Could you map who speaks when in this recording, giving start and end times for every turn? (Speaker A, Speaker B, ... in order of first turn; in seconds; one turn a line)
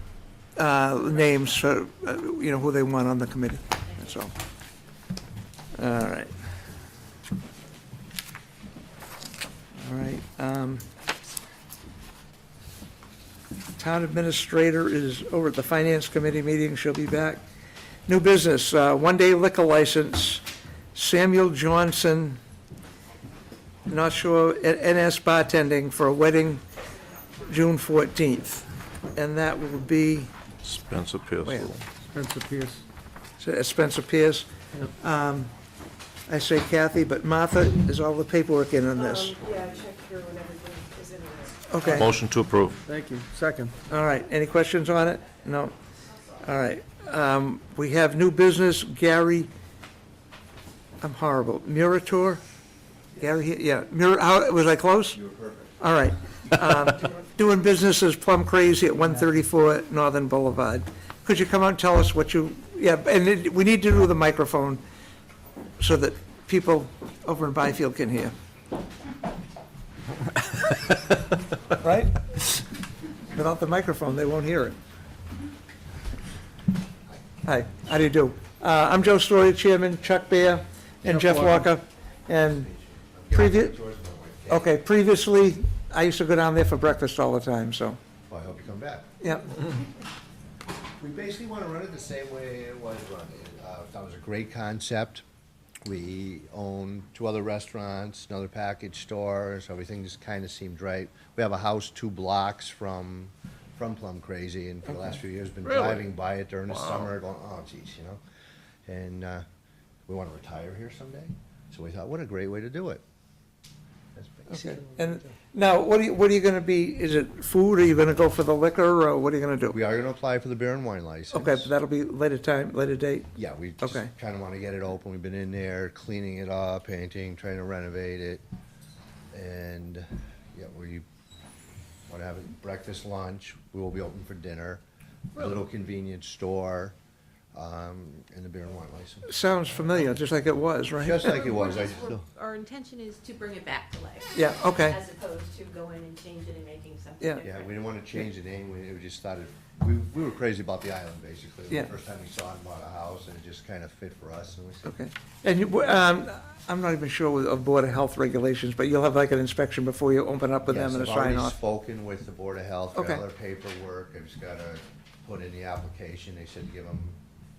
Speaker A: 0.6-4.3
Speaker A: 5.7-6.3
Speaker A: 9.8-10.8
Speaker A: 13.8-17.4
Speaker A: 18.1-20.4
Speaker A: 20.9-22.4
Speaker A: 23.9-26.6
Speaker A: 27.4-30.3
Speaker B: 30.6-31.8
Speaker A: 31.4-31.7
Speaker C: 32.1-32.8
Speaker A: 33.4-34.5
Speaker A: 35.0-35.5
Speaker A: 36.3-39.4
Speaker D: 39.0-41.7
Speaker A: 41.7-42.1
Speaker B: 41.8-42.8
Speaker C: 42.8-43.8
Speaker A: 43.9-45.7
Speaker A: 46.4-49.5
Speaker A: 51.0-52.4
Speaker A: 53.1-55.2
Speaker E: 55.1-55.7
Speaker A: 55.8-64.8
Speaker A: 65.8-68.3
Speaker A: 71.7-72.6
Speaker A: 73.3-74.8
Speaker A: 77.4-82.7
Speaker C: 81.0-81.7
Speaker E: 82.4-84.7
Speaker A: 83.3-83.8
Speaker A: 84.5-88.0
Speaker E: 88.3-89.1
Speaker A: 89.2-89.5
Speaker E: 91.0-95.2
Speaker E: 95.8-108.2
Speaker B: 105.7-106.0
Speaker E: 108.8-109.4
Speaker E: 110.1-113.0
Speaker E: 114.2-114.8
Speaker A: 114.5-119.8
Speaker E: 119.7-121.7
Speaker A: 121.3-123.3
Speaker E: 123.3-128.4
Speaker A: 123.8-124.1
Speaker E: 129.3-131.0
Speaker E: 132.1-134.8
Speaker E: 135.3-136.9
Speaker E: 137.5-139.3
Speaker A: 139.2-141.6
Speaker E: 141.0-142.3
Speaker F: 141.8-144.3
Speaker A: 144.3-145.0
Speaker F: 144.8-147.5
Speaker E: 147.4-155.0
Speaker A: 154.8-161.6
Speaker E: 160.7-167.2
Speaker A: 162.9-163.2